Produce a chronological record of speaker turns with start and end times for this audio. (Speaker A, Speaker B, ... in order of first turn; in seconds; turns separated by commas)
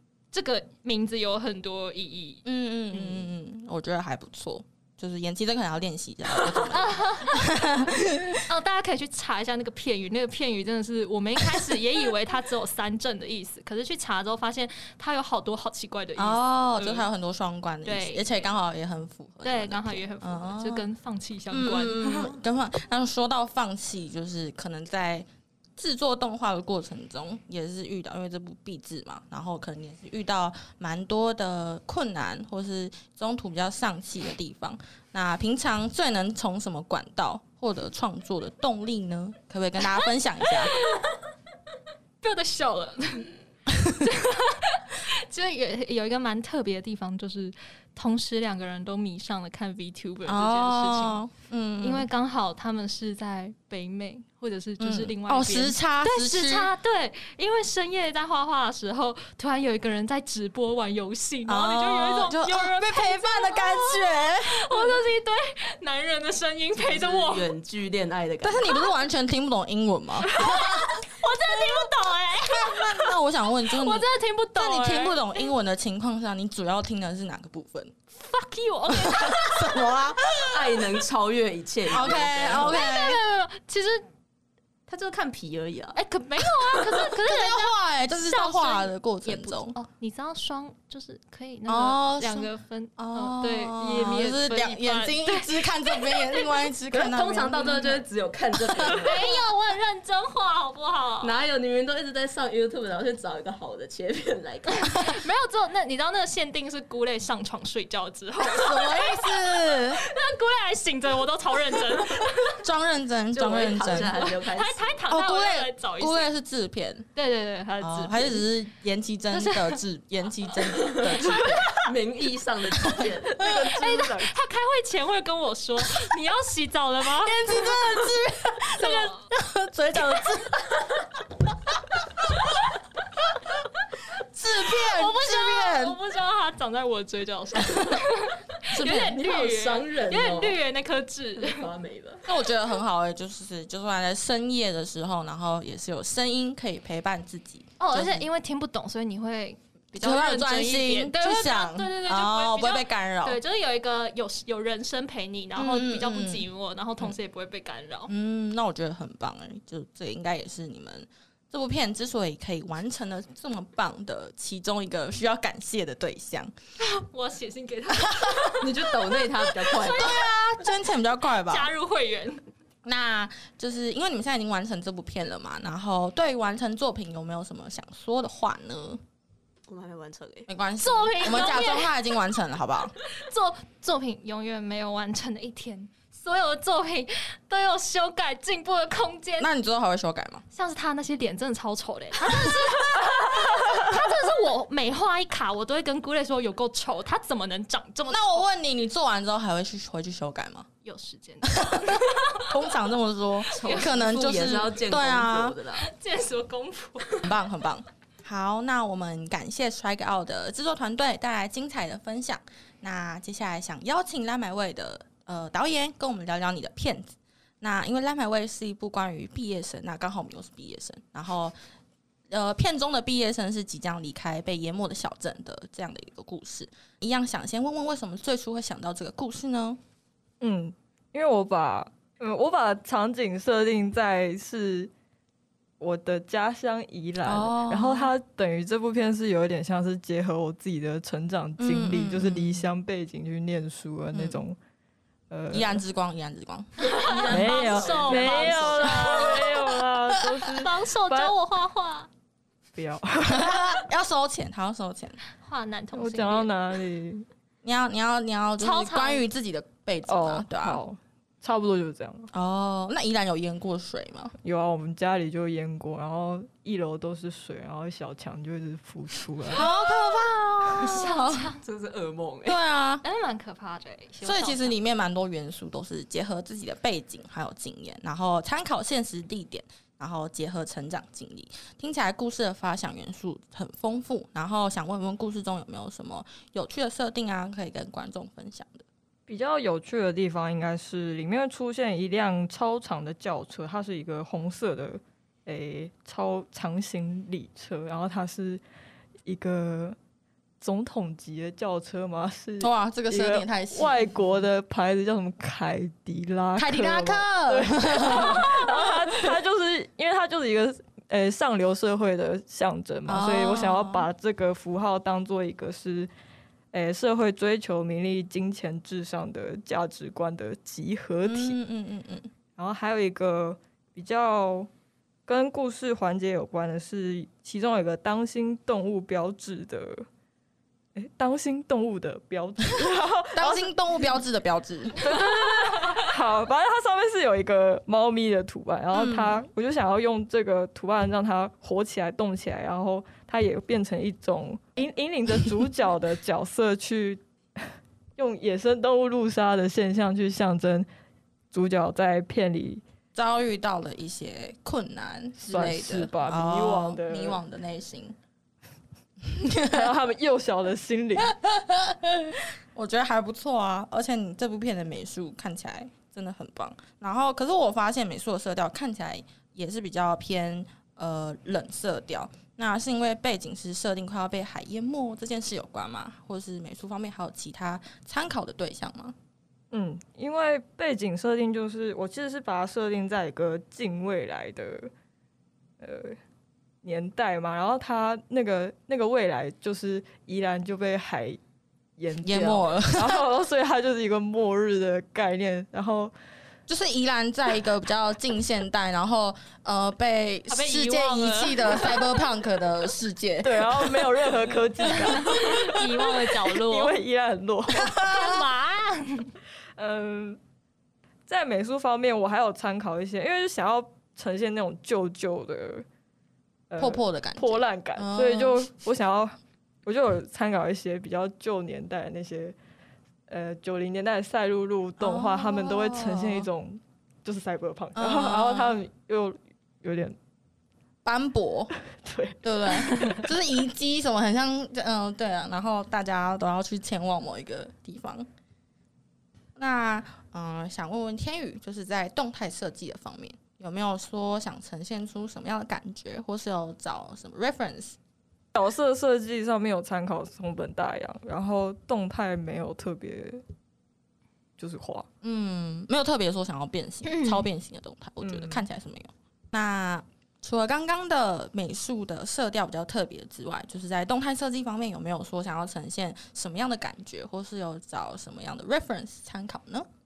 Speaker A: 0.3-3.3, Speaker B: 2.4-8.4, Speaker A: 6.7-7.5, Speaker A: 8.4-17.1, Speaker B: 16.2-20.8, Speaker A: 17.8-18.3, Speaker A: 19.4-22.4, Speaker B: 21.5-40.7, Speaker A: 40.6-41.0, Speaker A: 42.2-43.3, Speaker A: 43.9-51.2, Speaker B: 50.3-52.0, Speaker A: 51.8-67.5, Speaker B: 54.8-56.7, Speaker B: 61.5-64.9, Speaker C: 66.8-68.8, Speaker B: 68.4-70.8, Speaker A: 70.2-73.2, Speaker B: 72.5-77.9, Speaker A: 73.7-75.5, Speaker A: 78.1-79.9, Speaker B: 78.9-80.8, Speaker C: 80.5-82.8, Speaker B: 81.9-83.2, Speaker A: 82.5-84.0, Speaker C: 84.9-86.0, Speaker A: 85.9-96.7, Speaker B: 86.9-89.8, Speaker B: 91.7-98.0, Speaker C: 96.9-99.4, Speaker B: 98.7-99.1, Speaker A: 98.8-101.4, Speaker C: 101.2-105.1, Speaker A: 104.7-112.6, Speaker B: 108.4-110.0, Speaker B: 112.6-114.2, Speaker C: 113.3-114.9, Speaker A: 113.9-116.3, Speaker B: 115.1-117.0, Speaker A: 117.1-118.5, Speaker B: 117.8-121.7, Speaker A: 119.3-119.8, Speaker C: 120.7-124.2, Speaker A: 123.4-127.7, Speaker B: 127.2-130.7, Speaker A: 128.8-129.2, Speaker B: 134.3-136.0, Speaker A: 134.6-141.7, Speaker B: 138.7-139.2, Speaker C: 139.1-140.6, Speaker C: 141.3-142.2, Speaker B: 142.2-148.3, Speaker A: 147.8-158.1, Speaker B: 149.9-153.4, Speaker B: 155.6-156.4, Speaker B: 158.1-166.5, Speaker A: 166.8-170.8, Speaker C: 168.6-170.2, Speaker B: 169.9-171.7, Speaker A: 171.4-172.4, Speaker B: 172.8-179.0, Speaker C: 179.7-180.5, Speaker B: 180.5-182.9, Speaker A: 180.8-182.0, Speaker A: 183.1-189.5, Speaker B: 189.4-190.4, Speaker A: 190.5-198.4, Speaker B: 198.1-200.7, Speaker A: 200.8-202.7, Speaker B: 201.5-205.6, Speaker A: 203.5-204.0, Speaker C: 203.5-205.8, Speaker A: 205.8-207.3, Speaker B: 207.2-221.5, Speaker B: 222.3-229.8, Speaker D: 230.4-234.9, Speaker D: 235.8-244.6, Speaker B: 237.2-238.1, Speaker B: 241.6-242.7, Speaker B: 244.1-244.4, Speaker D: 245.3-245.8, Speaker B: 245.5-246.7, Speaker C: 246.8-249.5, Speaker A: 246.8-249.8, Speaker D: 247.3-251.3, Speaker A: 250.4-252.1, Speaker D: 252.7-253.8, Speaker B: 253.3-255.2, Speaker A: 255.4-256.5, Speaker D: 255.9-257.2, Speaker B: 257.6-260.8, Speaker A: 258.6-259.2, Speaker D: 260.1-262.3, Speaker B: 262.3-264.3, Speaker D: 264.4-269.7, Speaker B: 269.5-271.5, Speaker A: 270.0-271.6, Speaker C: 271.6-272.6, Speaker B: 272.4-273.0, Speaker A: 273.0-274.8, Speaker B: 274.2-288.8, Speaker D: 289.3-298.6, Speaker D: 299.2-300.0, Speaker D: 300.6-316.1, Speaker B: 302.6-304.1, Speaker B: 306.6-309.3, Speaker B: 313.1-314.1, Speaker D: 316.7-321.6, Speaker B: 321.2-322.3, Speaker D: 322.6-324.7, Speaker D: 325.2-330.1, Speaker D: 330.9-333.7, Speaker B: 333.3-335.0, Speaker D: 334.9-350.9, Speaker A: 335.8-336.0, Speaker B: 338.9-339.4, Speaker D: 351.5-352.8, Speaker B: 353.1-358.1, Speaker D: 355.4-357.4, Speaker B: 359.2-359.9, Speaker D: 359.7-361.3, Speaker B: 361.2-379.1, Speaker D: 379.7-384.9, Speaker D: 385.8-386.2, Speaker D: 386.8-391.4, Speaker D: 392.0-396.1, Speaker B: 392.2-393.2, Speaker B: 396.7-405.6, Speaker A: 400.5-402.2, Speaker D: 403.4-408.0, Speaker A: 405.2-407.0, Speaker B: 407.7-408.4, Speaker A: 407.9-409.3, Speaker D: 409.8-410.4, Speaker D: 411.3-415.8, Speaker D: 416.7-422.6, Speaker B: 416.8-418.7, Speaker D: 423.3-430.1, Speaker B: 425.0-426.5, Speaker B: 427.9-428.8, Speaker B: 431.0-431.7, Speaker D: 431.9-433.3, Speaker B: 432.4-438.3, Speaker B: 439.6-448.0, Speaker D: 448.5-453.4, Speaker D: 454.6-455.1, Speaker B: 455.2-469.9, Speaker A: 457.1-457.4, Speaker D: 458.2-458.6